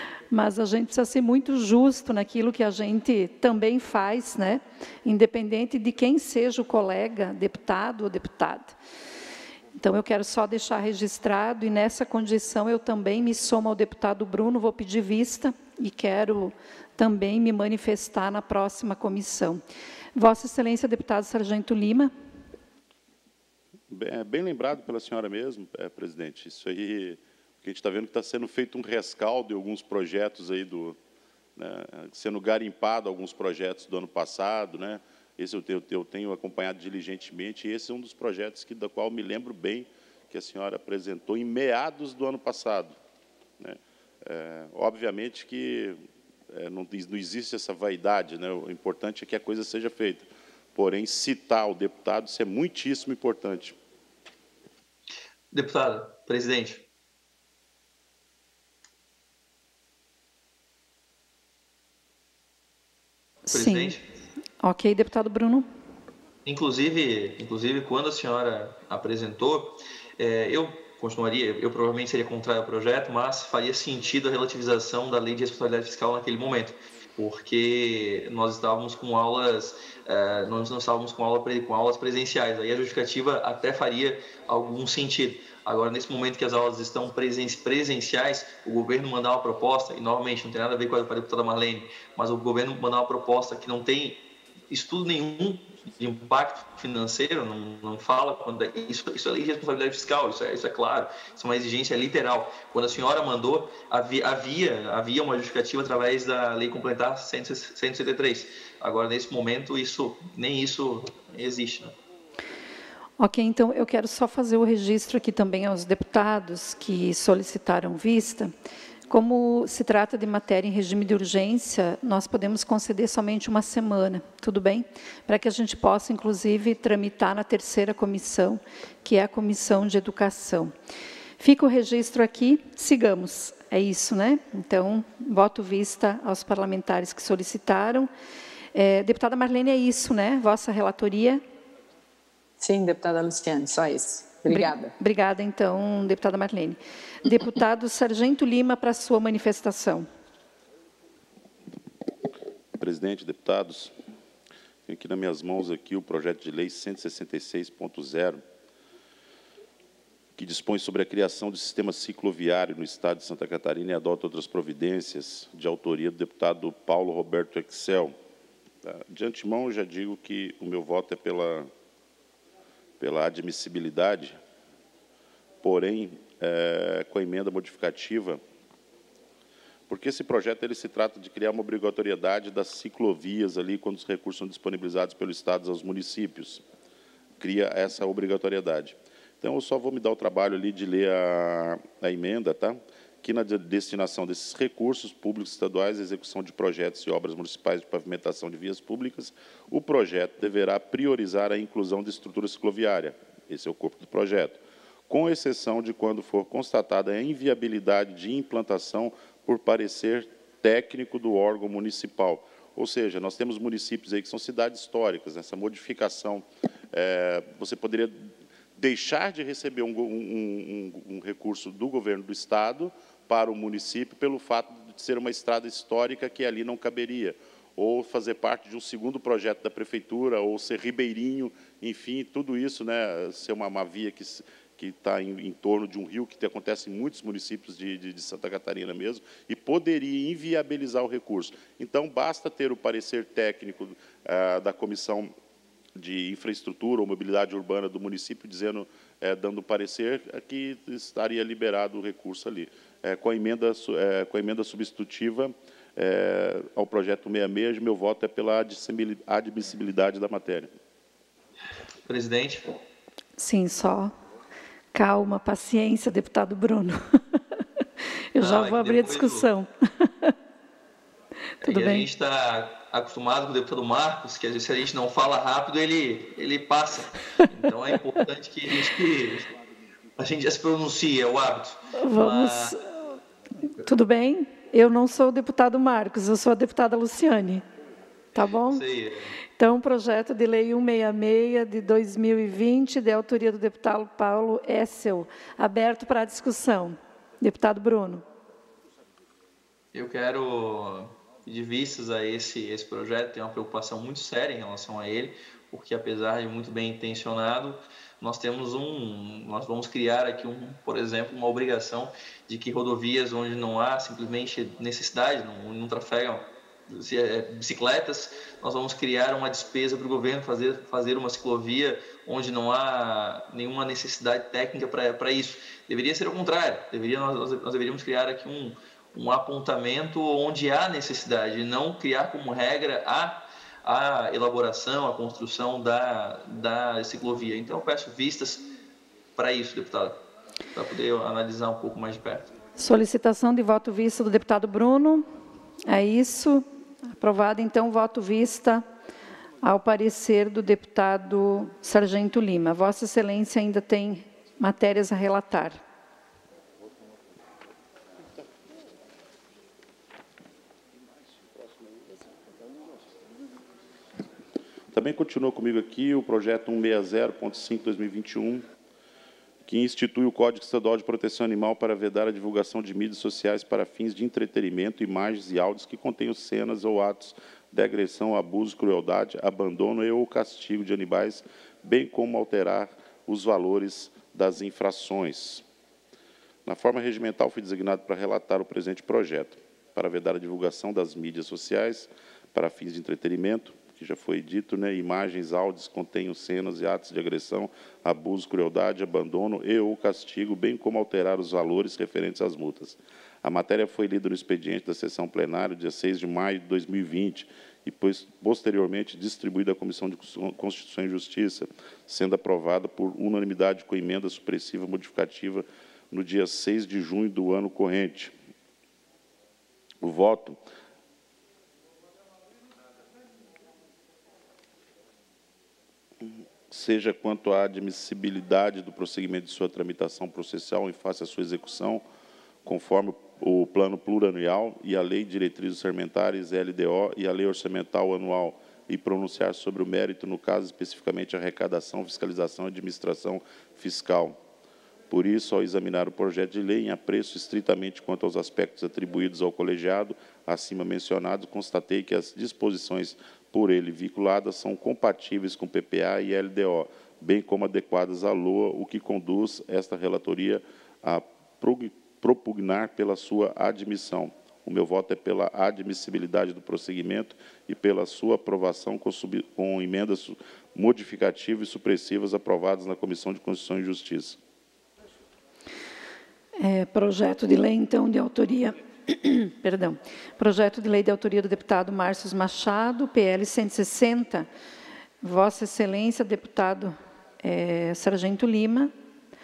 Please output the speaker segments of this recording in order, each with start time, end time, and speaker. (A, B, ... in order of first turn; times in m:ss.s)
0:00.3-0:08.8 A
0:09.8-0:19.6 A
0:20.2-0:22.1 A
0:23.9-0:31.0 B
0:31.6-0:43.0 B
0:43.6-0:46.0 B
0:46.5-0:53.8 B
0:55.5-0:56.9 C
1:03.5-1:04.0 A
1:03.5-1:04.1 C
1:04.6-1:05.7 A
1:06.4-1:52.0 C
1:53.2-1:58.5 A
1:59.1-2:10.7 A
2:11.4-2:18.1 A
2:18.8-2:21.4 A
2:22.6-2:24.9 D
2:24.5-2:30.1 A
2:32.8-2:34.0 B
2:34.9-2:38.4 B
2:40.4-2:48.2 B
2:48.8-2:51.7 B
2:53.0-2:54.4 B
2:55.6-2:58.4 B
2:59.9-3:06.6 B
3:07.4-4:05.3 B
4:06.0-4:20.7 B
4:22.1-4:22.8 C
4:23.4-4:24.1 A
4:24.9-4:27.4 A
4:28.4-4:30.3 A
4:28.4-4:29.5 C
4:31.6-4:39.5 C
4:31.6-4:32.1 A
4:40.2-4:42.8 C
4:42.0-4:42.9 A
4:43.8-4:47.6 A
4:48.4-4:48.8 A
4:48.6-4:49.3 C
4:49.6-4:58.2 A
4:59.9-5:38.7 C
5:39.4-5:40.2 C
5:40.7-5:42.5 C
5:42.8-5:45.3 A
5:45.9-5:46.7 A
5:47.2-5:48.8 A
5:49.6-5:55.8 A
6:04.9-6:08.6 B
6:09.7-6:25.6 B
6:26.7-6:58.3 B
7:00.0-7:00.6 B
7:06.2-7:12.0 B
7:12.6-7:24.4 B
7:25.1-7:54.4 B
7:56.6-8:04.5 A
8:05.2-8:08.9 A